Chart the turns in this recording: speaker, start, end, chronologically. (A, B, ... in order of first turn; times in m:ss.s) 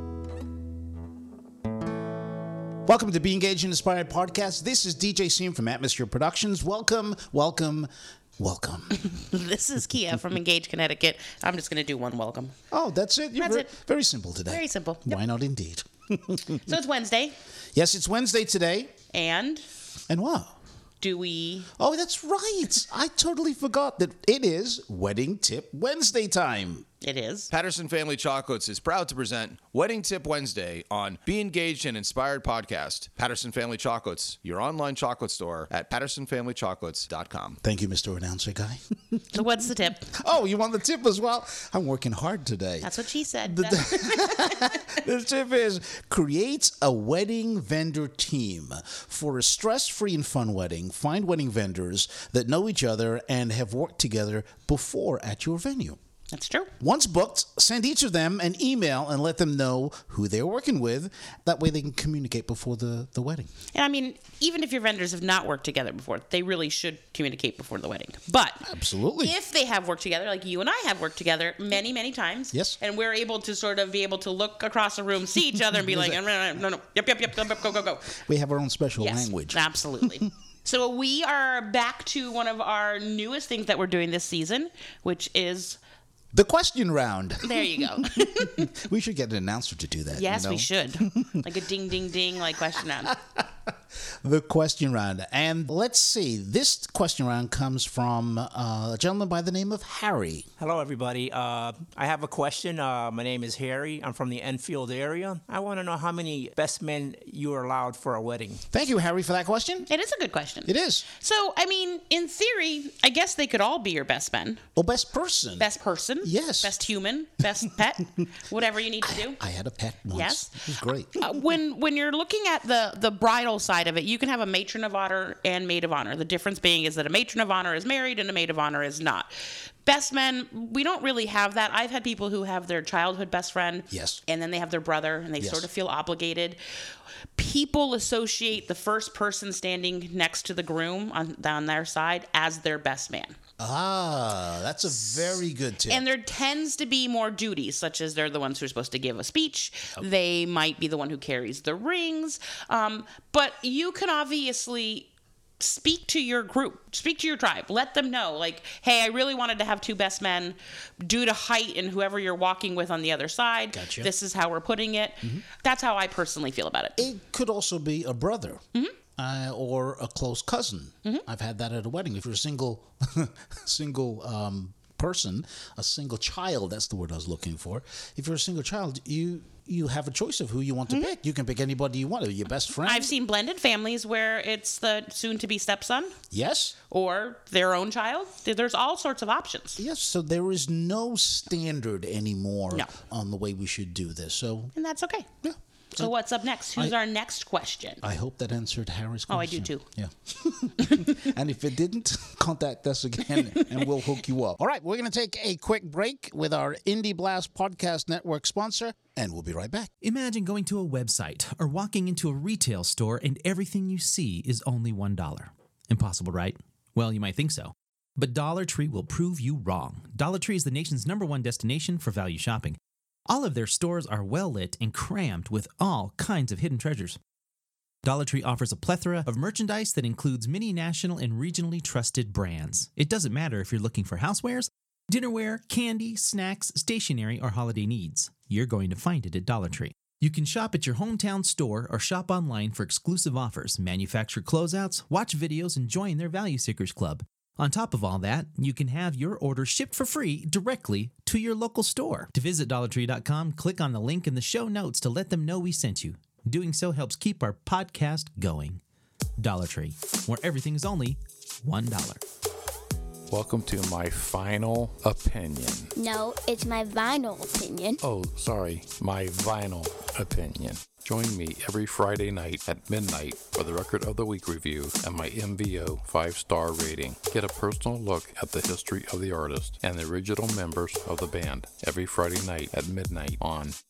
0:02.9-0:09.1 A
0:09.1-0:12.6 B
0:12.7-0:16.8 A
0:13.4-0:13.7 B
0:14.5-0:15.2 B
0:16.7-0:17.4 B
0:17.8-0:18.9 A
0:19.1-0:19.6 B
0:20.1-0:20.5 A
0:21.0-0:21.7 B
0:21.8-0:26.9 A
0:27.0-0:27.5 B
0:27.5-0:37.6 C
0:37.6-0:39.4 A
0:39.3-0:40.1 B
0:40.1-0:56.0 A
0:42.8-0:44.8 B
0:56.3-0:56.7 B
0:56.8-1:03.5 A
1:03.8-1:08.7 B
1:08.6-1:09.3 A
1:09.2-1:18.2 B
1:12.5-1:12.8 A
1:15.8-1:16.2 A
1:18.2-1:20.3 A
1:19.0-1:25.8 B
1:26.3-1:31.5 A
1:27.4-1:28.7 B
1:30.2-1:33.2 B
1:32.8-1:33.7 A
1:34.2-1:40.5 A
1:40.6-1:48.6 D
1:48.7-1:49.9 A
1:49.9-1:54.6 B
1:50.6-1:51.0 A
1:54.8-1:55.7 A
1:55.6-1:59.4 B
1:56.2-1:56.8 A
1:59.0-2:01.3 A
2:00.1-2:00.6 B
2:01.2-2:09.3 B
2:09.8-2:16.6 B
2:13.9-2:14.2 A
2:15.4-2:15.7 A
2:17.4-2:23.4 B
2:23.6-2:26.0 A
2:25.1-2:25.4 B
2:25.9-2:47.0 B
2:43.7-2:44.1 A
2:47.0-2:48.6 A
2:49.2-3:03.1 A
3:02.9-3:06.2 B
3:06.3-3:06.8 A
3:06.9-3:09.8 B
3:09.8-3:14.7 A
3:14.8-3:15.3 B
3:15.4-3:16.1 A
3:15.9-3:18.0 B
3:18.0-3:29.9 A
3:19.3-3:19.8 B
3:23.3-3:23.8 B
3:30.0-3:47.2 E
3:48.0-4:18.8 E
4:19.4-4:22.2 E
4:23.3-4:25.9 F
4:26.0-4:28.0 G
4:28.0-4:43.8 F